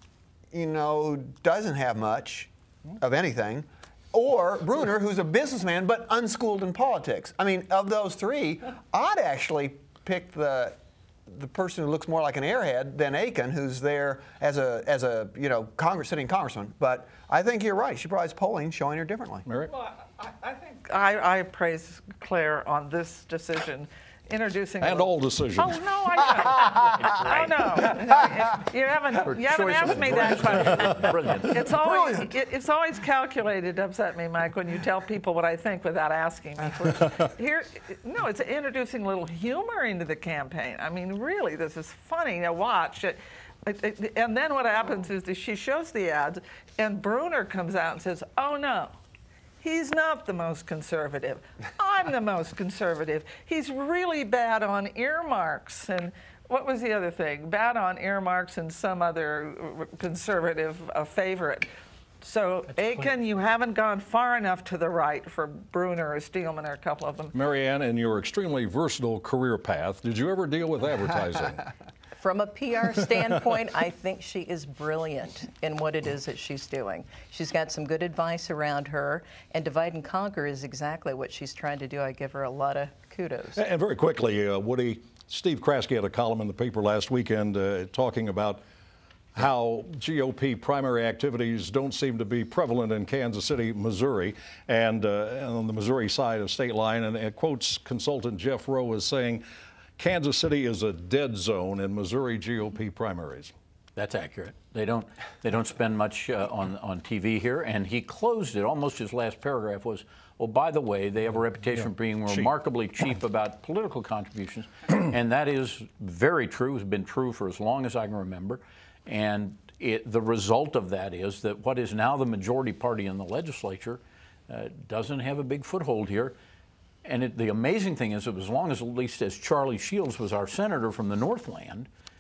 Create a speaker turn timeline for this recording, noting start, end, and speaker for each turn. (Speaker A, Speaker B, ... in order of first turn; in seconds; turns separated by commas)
Speaker A: 0.5-19.4, Speaker B: 19.4-19.7, Speaker C: 19.7-49.0, Speaker B: 24.8-25.8, Speaker D: 26.9-27.9, Speaker D: 29.2-31.8, Speaker C: 49.6-61.7, Speaker C: 62.2-67.3, Speaker B: 67.3-71.6, Speaker E: 72.2-83.6, Speaker B: 83.5-88.6, Speaker B: 89.3-99.4, Speaker B: 100.0-103.5, Speaker D: 104.0-126.3, Speaker D: 127.0-131.9